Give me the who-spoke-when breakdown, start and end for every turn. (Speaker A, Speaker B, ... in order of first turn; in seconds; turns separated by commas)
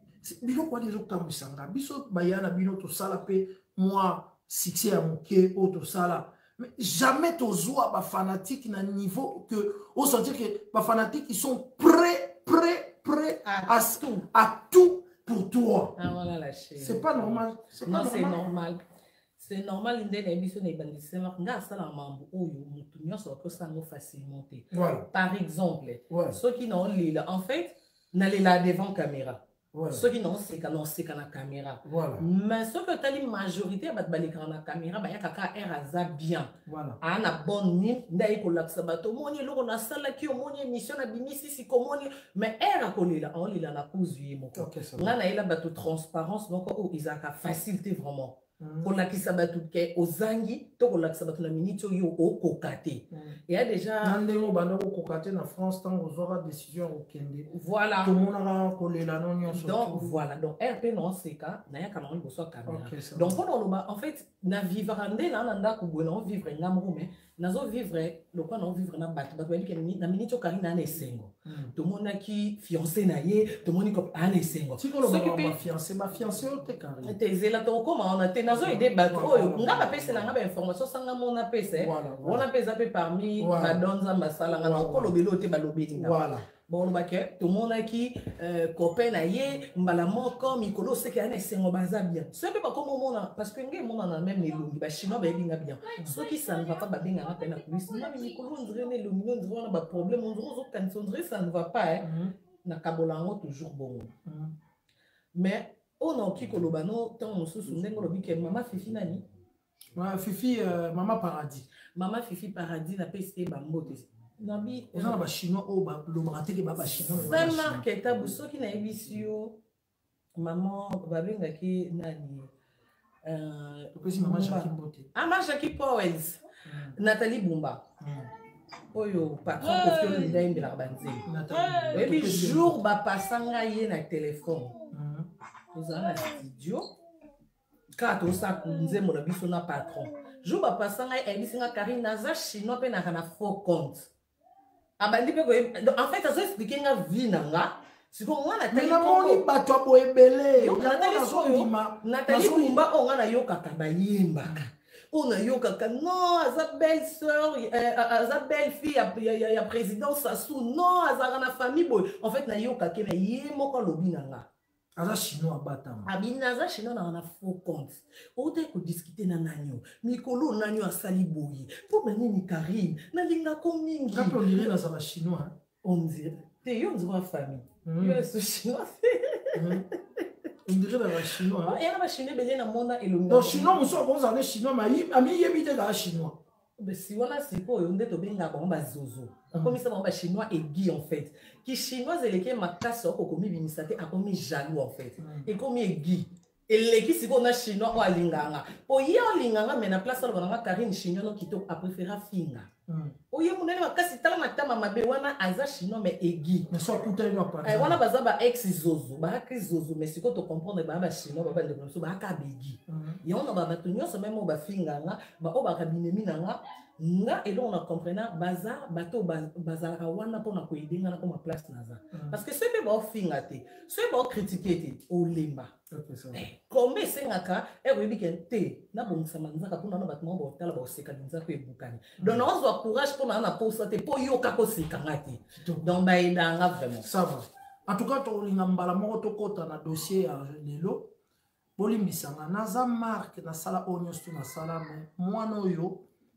Speaker A: 0.2-16.0, Speaker B: 13.4-14.2, Speaker B: 16.0-18.8, Speaker A: 16.8-18.4, Speaker B: 19.4-54.2, Speaker A: 24.7-25.1, Speaker A: 26.1-26.4, Speaker A: 29.7-30.1, Speaker A: 31.8-32.2, Speaker A: 36.7-37.0, Speaker A: 44.6-45.1, Speaker A: 48.6-48.9, Speaker A: 53.1-53.4, Speaker A: 54.0-57.5, Speaker B: 57.5-58.1, Speaker A: 58.0-60.2, Speaker B: 59.5-75.6, Speaker A: 62.7-63.4, Speaker A: 71.5-71.7, Speaker A: 74.8-77.2, Speaker B: 77.0-102.1, Speaker A: 78.5-80.3, Speaker A: 81.7-82.5, Speaker A: 83.4-83.8, Speaker A: 84.6-85.2, Speaker A: 85.9-86.5, Speaker A: 102.0-102.3, Speaker B: 102.6-104.1, Speaker A: 104.3-104.6, Speaker B: 105.3-109.2, Speaker A: 110.0-111.7, Speaker B: 112.0-115.2, Speaker A: 114.9-117.8, Speaker B: 117.1-119.6, Speaker B: 120.4-122.5, Speaker B: 123.2-126.5, Speaker A: 124.0-125.1, Speaker A: 126.7-127.0, Speaker B: 127.0-127.8, Speaker A: 128.0-128.3, Speaker B: 128.9-131.3, Speaker A: 129.8-130.4, Speaker A: 131.2-132.8, Speaker B: 131.9-134.9, Speaker A: 134.9-135.3, Speaker B: 135.7-136.9, Speaker B: 138.0-144.1, Speaker B: 145.0-149.4, Speaker A: 148.7-152.8, Speaker B: 150.6-164.5, Speaker A: 165.0-166.1, Speaker B: 166.1-174.7, Speaker A: 174.1-175.6, Speaker B: 175.8-180.3, Speaker A: 177.8-178.2, Speaker A: 179.5-179.9, Speaker A: 180.7-181.8, Speaker B: 181.6-184.0, Speaker A: 183.3-186.4, Speaker B: 186.8-202.7, Speaker A: 189.5-189.8, Speaker A: 195.2-195.5, Speaker A: 202.9-203.2, Speaker B: 203.3-206.7, Speaker A: 206.7-208.0, Speaker B: 207.7-225.7, Speaker A: 212.9-213.2, Speaker A: 222.1-222.4, Speaker A: 225.9-226.4, Speaker B: 226.3-237.1, Speaker A: 232.2-232.5, Speaker A: 235.6-236.0, Speaker A: 237.0-241.1, Speaker A: 241.8-246.1